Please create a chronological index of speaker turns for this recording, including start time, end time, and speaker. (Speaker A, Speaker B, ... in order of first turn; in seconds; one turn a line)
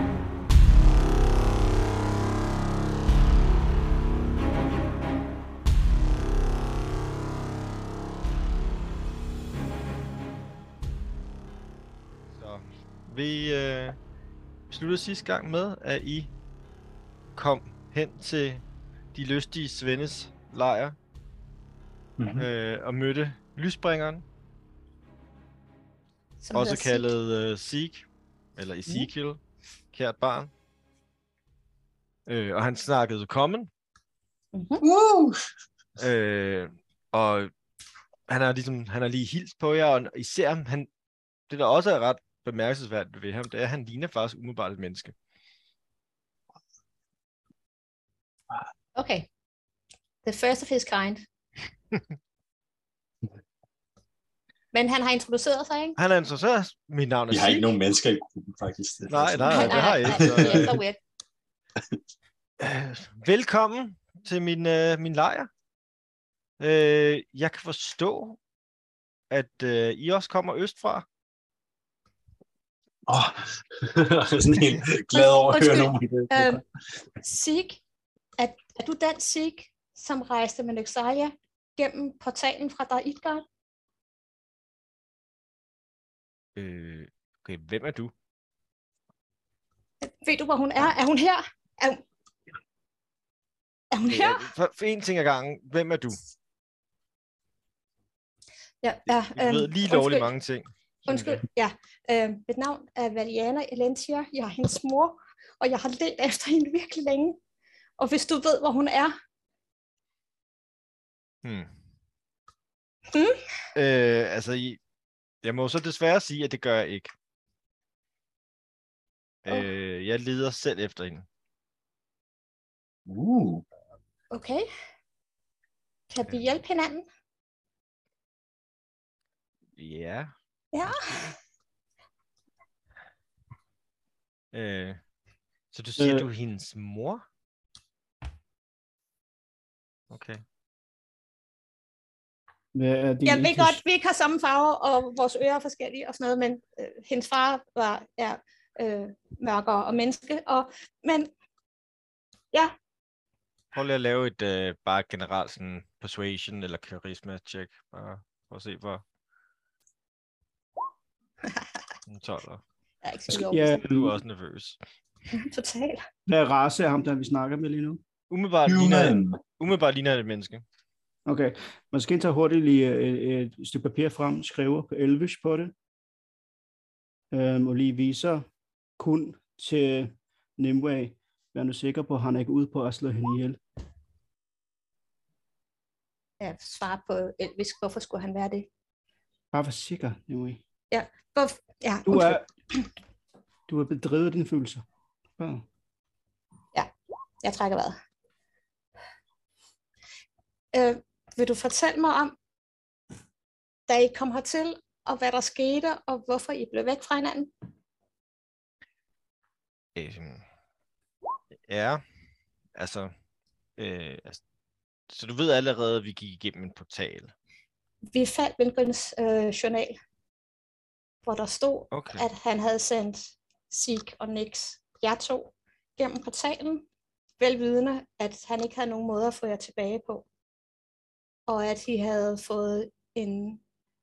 Speaker A: 12.3-14.0
Speaker A: 14.7-16.3
Speaker A: 17.4-18.6
Speaker A: 19.1-21.0
Speaker B: 22.2-22.5
Speaker A: 22.4-24.2
Speaker C: 26.4-27.1
Speaker A: 26.5-28.1
Speaker A: 28.6-29.4
Speaker A: 29.9-30.5
Speaker A: 32.3-33.7
Speaker C: 34.5-34.8
Speaker B: 34.8-35.4
Speaker A: 36.0-37.5
Speaker A: 38.3-40.9
Speaker A: 41.5-45.1
Speaker C: 49.0-49.3
Speaker C: 50.2-51.3
Speaker C: 54.7-56.0
Speaker A: 56.0-57.7
Speaker B: 57.3-60.7
Speaker A: 59.1-60.8
Speaker C: 59.5-61.0
Speaker A: 62.6-65.5
Speaker A: 66.6-68.4
Speaker A: 69.3-71.0
Speaker B: 73.1-76.6
Speaker C: 75.1-76.6
Speaker C: 77.2-77.8
Speaker C: 78.4-83.4
Speaker A: 86.6-88.1
Speaker C: 90.0-92.0
Speaker C: 93.9-94.4
Speaker A: 94.1-96.2
Speaker C: 98.8-100.3
Speaker A: 99.1-101.4
Speaker C: 101.1-107.4
Speaker C: 108.0-109.1
Speaker A: 111.4-111.7
Speaker C: 113.1-113.4
Speaker A: 113.8-114.8
Speaker A: 115.4-117.1
Speaker A: 119.5-121.3
Speaker B: 123.1-123.6
Speaker C: 124.3-124.7
Speaker C: 126.1-127.1
Speaker A: 129.8-130.3
Speaker C: 130.7-131.3
Speaker A: 130.8-131.3
Speaker A: 134.5-135.0
Speaker A: 135.7-137.2
Speaker D: 136.0-136.3
Speaker A: 140.1-140.4
Speaker D: 142.7-143.8
Speaker C: 143.2-151.3
Speaker A: 153.7-159.0
Speaker A: 162.1-162.6
Speaker C: 163.0-163.8
Speaker D: 163.3-164.2
Speaker A: 163.8-164.8
Speaker C: 165.3-166.1
Speaker D: 166.3-168.0
Speaker A: 168.3-170.6
Speaker B: 168.7-169.4
Speaker D: 171.3-175.7
Speaker D: 177.3-178.5
Speaker D: 179.0-183.6
Speaker C: 186.4-188.7
Speaker D: 189.5-190.6
Speaker C: 190.9-192.9
Speaker D: 192.1-192.5
Speaker D: 193.7-194.8
Speaker D: 195.4-195.7
Speaker C: 197.4-198.0
Speaker C: 200.7-202.3
Speaker C: 203.9-207.5
Speaker A: 209.9-210.4
Speaker A: 211.7-212.0
Speaker A: 212.8-213.1
Speaker A: 213.8-214.4
Speaker A: 215.1-217.3
Speaker C: 218.1-220.0
Speaker C: 221.2-226.8
Speaker A: 221.9-222.2
Speaker C: 227.4-230.3
Speaker C: 231.5-233.6